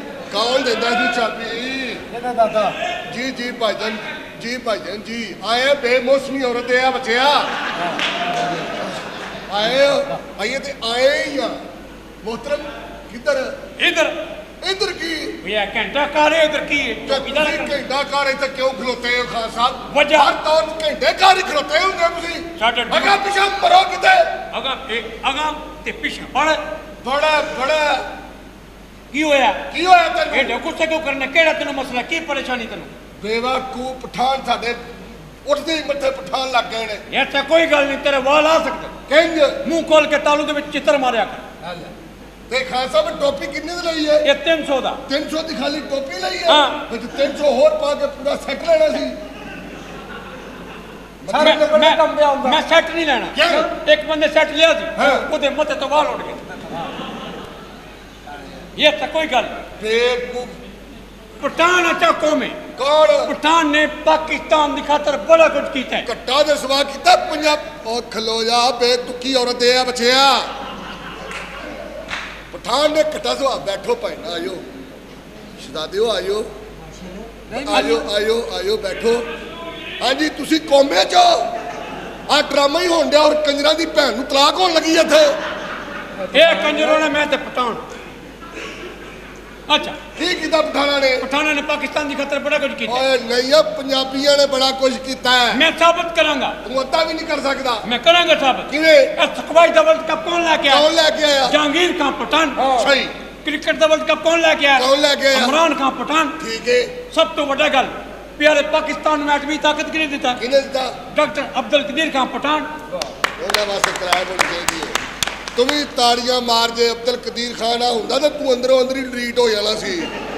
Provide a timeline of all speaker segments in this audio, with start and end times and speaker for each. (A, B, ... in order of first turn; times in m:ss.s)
0:00.3-0:02.0 A
0:02.1-0:02.8 B
0:03.0-0:07.5 A
0:09.5-0:11.6 A
0:12.2-0:13.6 A
0:13.8-0:14.1 C
0:14.6-0:15.4 A
0:15.4-0:17.8 C
0:17.0-0:24.3 A
0:19.9-0:20.3 C
0:22.6-0:23.2 C
0:24.5-0:26.6 C
0:27.0-0:28.1 A
0:29.1-0:29.6 C
0:29.7-0:30.6 A
0:30.3-0:32.9 C
0:33.2-0:34.8 A
0:35.4-0:37.0 A
0:37.1-0:38.9 C
0:39.1-0:39.6 A
0:39.6-0:41.4 C
0:41.6-0:41.9 B
0:42.5-0:44.3 A
0:44.2-0:45.0 C
0:45.1-0:49.2 A
0:46.5-0:46.8 C
0:51.2-0:51.7 A
0:51.3-0:52.6 B
0:51.3-0:56.6 C
0:53.3-0:53.7 A
0:55.0-0:55.3 A
0:58.8-0:59.6 C
0:59.8-1:00.5 A
1:01.4-1:02.6 C
1:02.7-1:03.3 A
1:03.2-1:06.1 C
1:06.0-1:10.5 A
1:12.5-1:14.6 A
1:15.6-1:16.5 A
1:17.3-1:18.1 B
1:17.6-1:19.2 A
1:20.0-1:21.5 A
1:22.3-1:25.4 A
1:26.2-1:27.0 B
1:26.3-1:27.8 C
1:29.7-1:30.0 C
1:30.1-1:31.2 A
1:31.2-1:33.0 C
1:32.8-1:35.6 A
1:35.5-1:36.6 C
1:36.6-1:37.9 A
1:37.8-1:40.9 C
1:38.7-1:39.2 A
1:40.6-1:41.6 A
1:41.4-1:42.6 C
1:42.6-1:42.9 B
1:42.6-1:43.1 A
1:43.4-1:46.4 C
1:44.7-1:45.6 A
1:46.4-1:46.9 A
1:47.1-1:50.4 C
1:50.4-1:50.9 A
1:51.1-1:52.7 C
1:53.4-1:55.0 A
1:55.5-2:00.1 A